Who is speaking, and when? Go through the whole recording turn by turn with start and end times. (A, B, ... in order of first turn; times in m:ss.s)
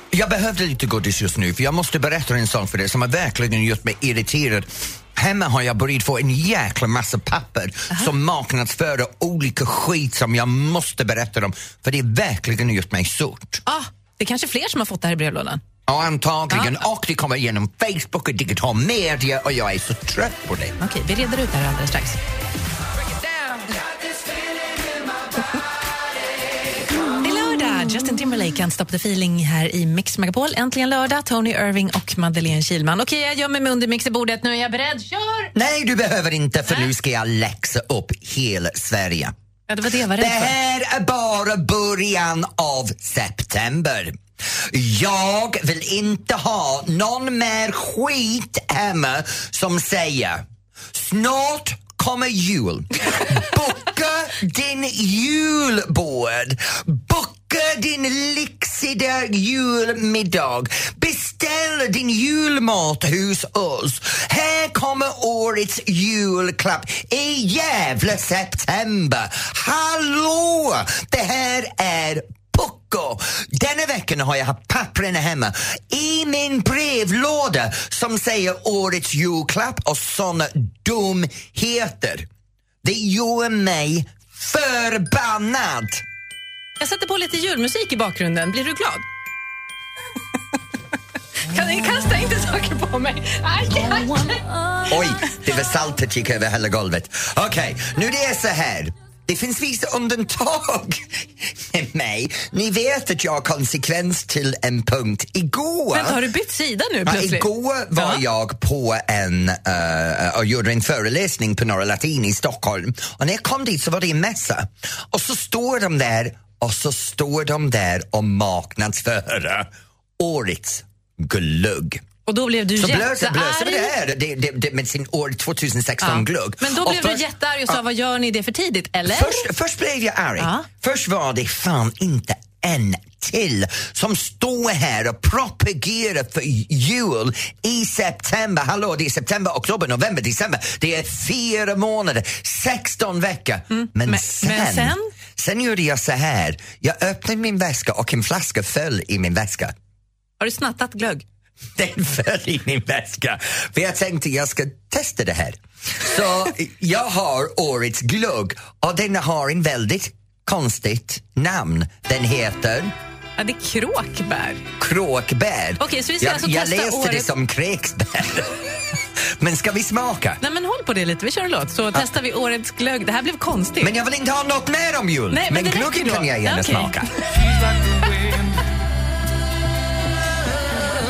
0:00.1-0:13.6 A
0:13.7-0:15.6 B
0:15.9-0:20.8 A
0:20.8-0:22.2 B
0:27.1-0:35.5 B
0:35.5-0:39.3 A
0:39.7-0:40.5 B
0:40.2-1:22.3 A
1:22.8-1:26.0 A
1:26.8-1:29.0 B
1:31.4-1:34.4 B
1:34.9-1:46.2 A
1:45.9-1:48.2 B
1:47.0-2:02.0 A
2:02.3-2:03.9 B
2:02.8-2:07.8 A
2:06.0-2:09.4 B
2:09.1-2:29.7 A
2:10.4-2:10.7 B
2:23.7-2:25.1 B
2:30.4-2:31.2 B
2:31.8-2:42.9 A
2:43.4-2:44.6 B
2:44.8-2:48.6 A
2:45.8-2:47.3 B
2:49.4-2:50.4 A
2:50.4-2:53.9 B
2:53.8-2:57.1 A
2:55.3-2:57.0 B